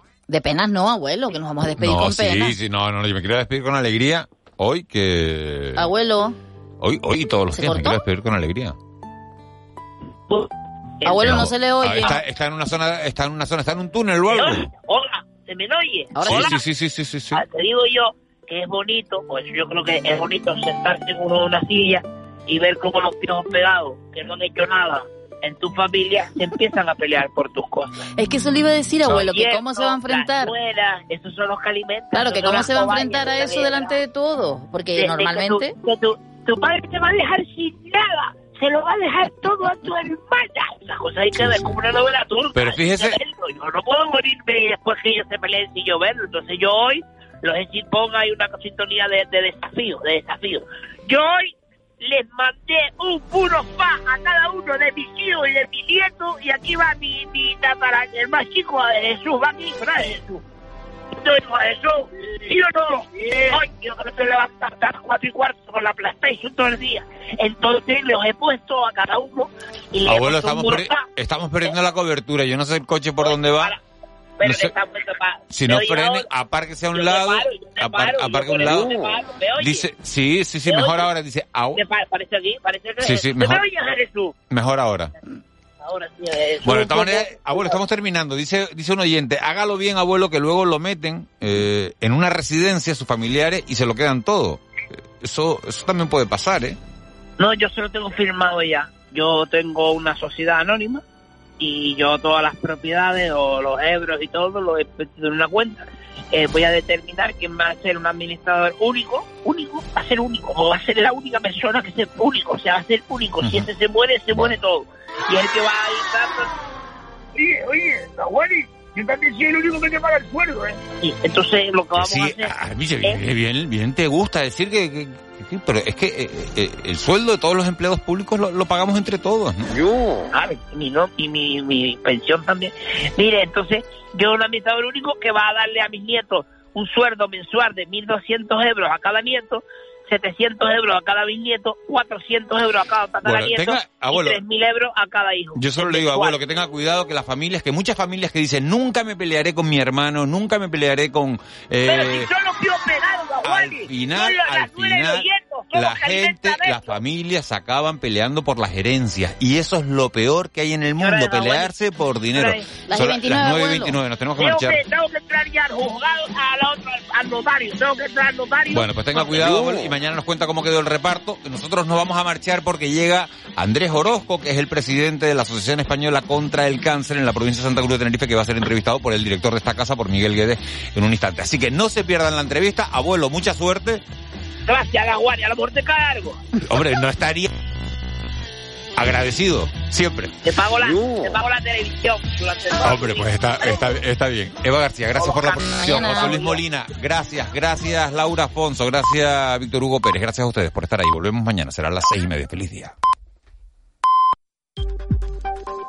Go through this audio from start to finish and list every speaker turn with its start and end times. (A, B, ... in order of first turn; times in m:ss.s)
0:00.3-0:02.6 A
0:01.8-0:05.9 B
0:05.8-0:06.4 A
0:06.8-0:08.8 B
0:07.5-0:08.0 A
0:11.0-0:11.5 C
0:11.0-0:12.2 A
0:11.2-0:14.7 B
0:14.3-0:16.6 C
0:16.1-0:16.5 A
0:16.2-0:17.4 B
0:17.3-0:27.9 C
0:28.2-0:30.5 A
0:29.1-0:34.0 C
0:32.1-0:35.7 A
0:35.0-1:00.4 C
0:41.4-0:41.7 B
0:42.6-0:43.2 B
1:01.1-1:11.1 C
1:10.0-1:13.8 B
1:13.2-1:13.8 C
1:14.4-1:16.3 C
1:14.4-1:14.7 B
1:15.5-1:18.9 B
1:16.9-1:19.9 C
1:19.6-1:21.8 B
1:20.7-1:21.1 C
1:21.8-1:24.4 C
1:23.0-1:23.6 B
1:24.5-1:25.1 B
1:25.8-1:27.8 C
1:26.6-1:34.6 B
1:35.2-1:36.8 B
1:37.4-1:41.0 C
1:41.6-1:56.5 C
1:53.4-1:53.7 B
1:57.4-2:02.5 C
2:02.0-2:09.7 B
2:10.3-2:26.4 C
2:23.2-2:24.4 B
2:25.6-2:32.3 B
2:31.9-2:37.0 C
2:33.4-2:44.8 B
2:41.0-2:41.7 C
2:42.3-2:42.7 C
2:42.9-2:44.0 A
2:44.4-2:49.7 C
2:48.7-3:04.0 B
3:04.7-3:06.5 C
3:06.6-3:07.5 B
3:09.0-3:10.3 B
3:10.4-3:13.9 C
3:12.8-3:22.9 B
3:15.2-3:16.6 C
3:15.7-3:16.4 A